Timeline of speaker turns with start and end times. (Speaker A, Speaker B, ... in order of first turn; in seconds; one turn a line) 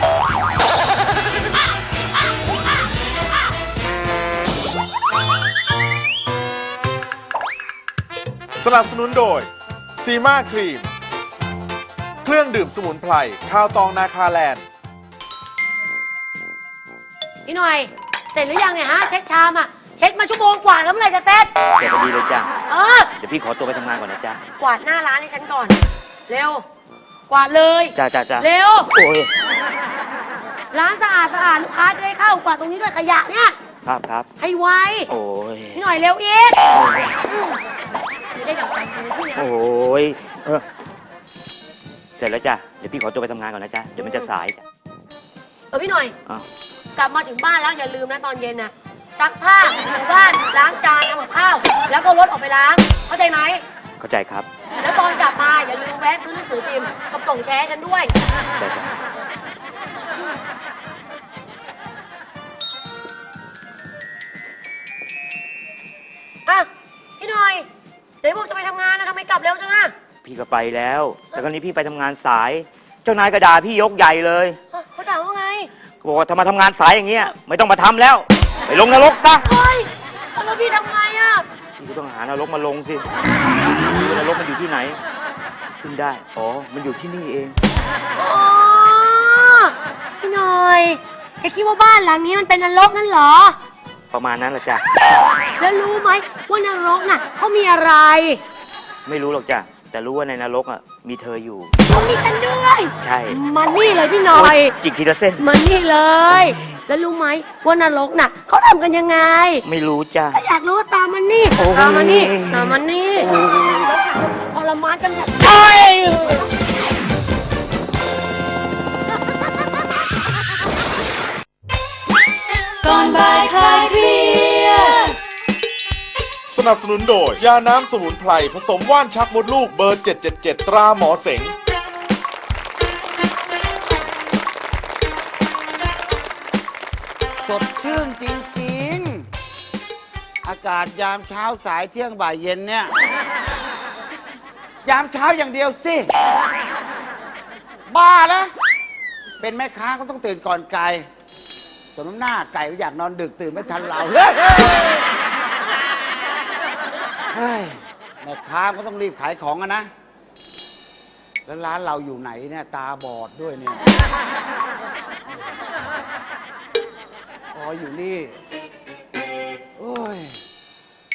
Speaker A: 8.6-10.9
Speaker A: 12.2-14.6
Speaker B: 17.4-21.5
Speaker C: 21.8-22.5
Speaker B: 22.7-23.1
Speaker C: 23.2-24.4
Speaker B: 24.6-26.6
Speaker B: 27.3-28.9
Speaker C: 27.9-29.3
Speaker B: 30.7-33.5
Speaker C: 33.8-34.3
Speaker B: 34.4-35.1
Speaker C: 35.1-35.8
Speaker B: 35.7-36.7
Speaker C: 36.7-37.1
Speaker B: 37.3-37.6
Speaker B: 38.3-39.5
Speaker C: 39.3-40.6
Speaker C: 42.2-44.6
Speaker B: 44.0-44.3
Speaker B: 45.7-46.1
Speaker B: 47.0-53.6
Speaker C: 54.0-54.5
Speaker B: 54.8-58.1
Speaker C: 58.6-58.9
Speaker B: 66.5-67.7
Speaker B: 68.2-69.9
Speaker C: 70.2-74.6
Speaker B: 74.7-75.7
Speaker C: 76.0-79.4
Speaker B: 79.4-81.4
Speaker C: 81.8-83.0
Speaker C: 83.9-85.0
Speaker C: 85.8-87.5
Speaker B: 88.1-93.6
Speaker C: 94.1-94.8
Speaker B: 95.6-98.4
Speaker C: 99.0-101.7
Speaker B: 101.9-104.7
Speaker C: 103.0-103.4
Speaker C: 104.3-105.4
Speaker B: 105.4-109.6
Speaker C: 109.6-110.3
Speaker B: 110.3-116.4
Speaker C: 111.6-112.8
Speaker D: 122.8-125.1
Speaker A: 126.5-131.5
Speaker E: 137.4-139.2
Speaker E: 140.4-142.9
Speaker E: 144.8-146.1
Speaker E: 147.9-148.5
Speaker E: 149.4-151.1
Speaker E: 151.9-155.1
Speaker E: 157.3-159.9
Speaker E: 161.5-163.8
Speaker E: 167.5-168.3
Speaker E: 169.8-170.4